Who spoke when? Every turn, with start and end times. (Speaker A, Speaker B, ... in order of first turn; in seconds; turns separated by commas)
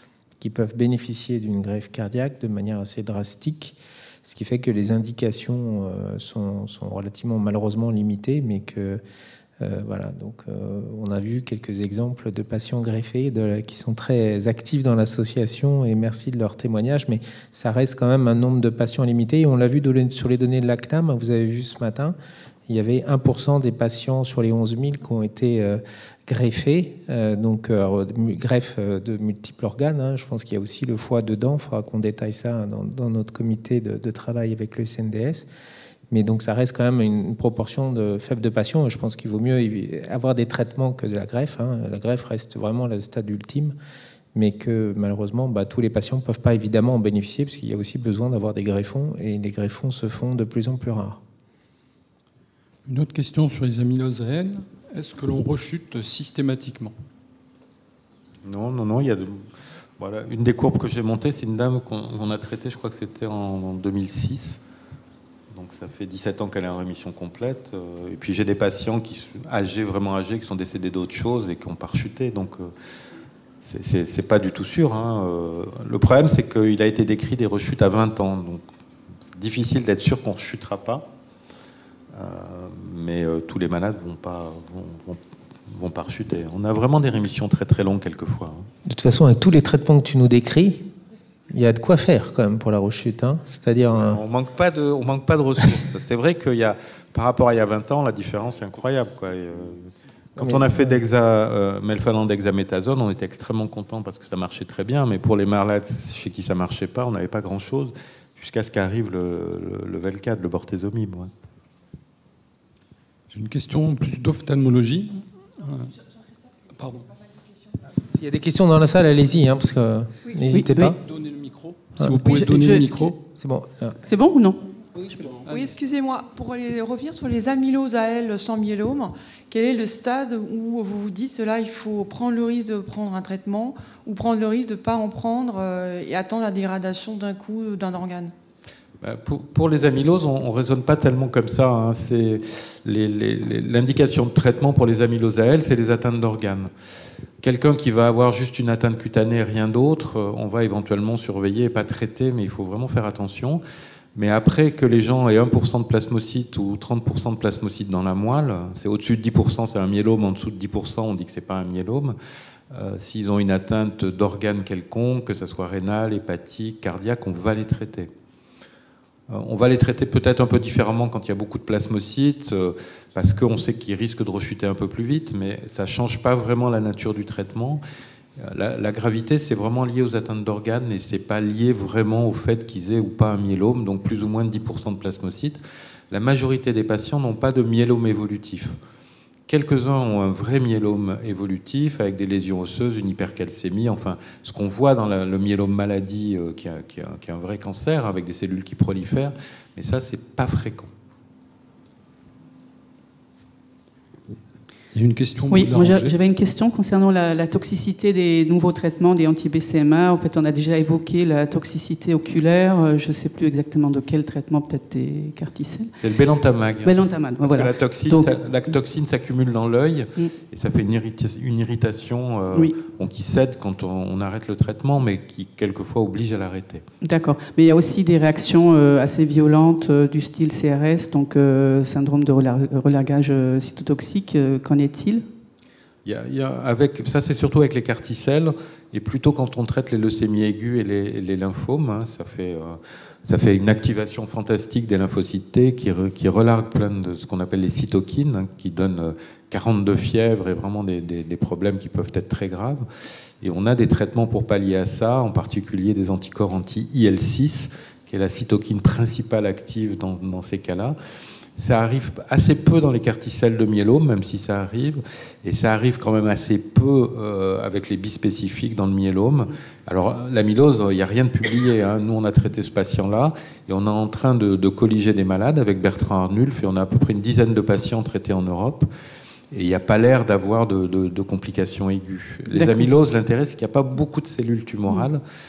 Speaker A: 0.4-9.0, Speaker A: 9.6-22.1, Speaker A: 22.7-35.5, Speaker A: 36.1-43.7, Speaker A: 44.3-51.2, Speaker B: 52.8-56.9, Speaker C: 58.4-64.6, Speaker C: 65.5-72.7, Speaker C: 73.6-78.6, Speaker C: 79.3-81.1, Speaker C: 82.1-88.7, Speaker A: 88.8-90.8, Speaker A: 91.5-94.2, Speaker C: 94.0-111.3, Speaker A: 100.4-101.0, Speaker B: 113.3-116.0, Speaker B: 116.7-117.2, Speaker A: 118.0-121.0, Speaker D: 120.5-120.9, Speaker B: 121.0-123.2, Speaker A: 122.0-122.3, Speaker D: 122.3-123.1, Speaker A: 123.2-124.0, Speaker D: 124.0-124.6, Speaker E: 125.4-138.3, Speaker C: 139.0-146.7, Speaker C: 147.4-153.6, Speaker C: 154.1-162.2, Speaker C: 162.7-168.1, Speaker C: 169.3-177.8, Speaker C: 178.4-185.6, Speaker C: 186.1-188.7, Speaker C: 189.5-200.9, Speaker B: 204.9-206.2, Speaker D: 205.5-215.9, Speaker C: 216.0-226.8, Speaker D: 216.8-218.4, Speaker D: 227.0-235.2, Speaker C: 236.0-252.8, Speaker C: 253.4-260.9, Speaker C: 261.6-278.9, Speaker C: 279.5-285.2, Speaker D: 282.5-282.9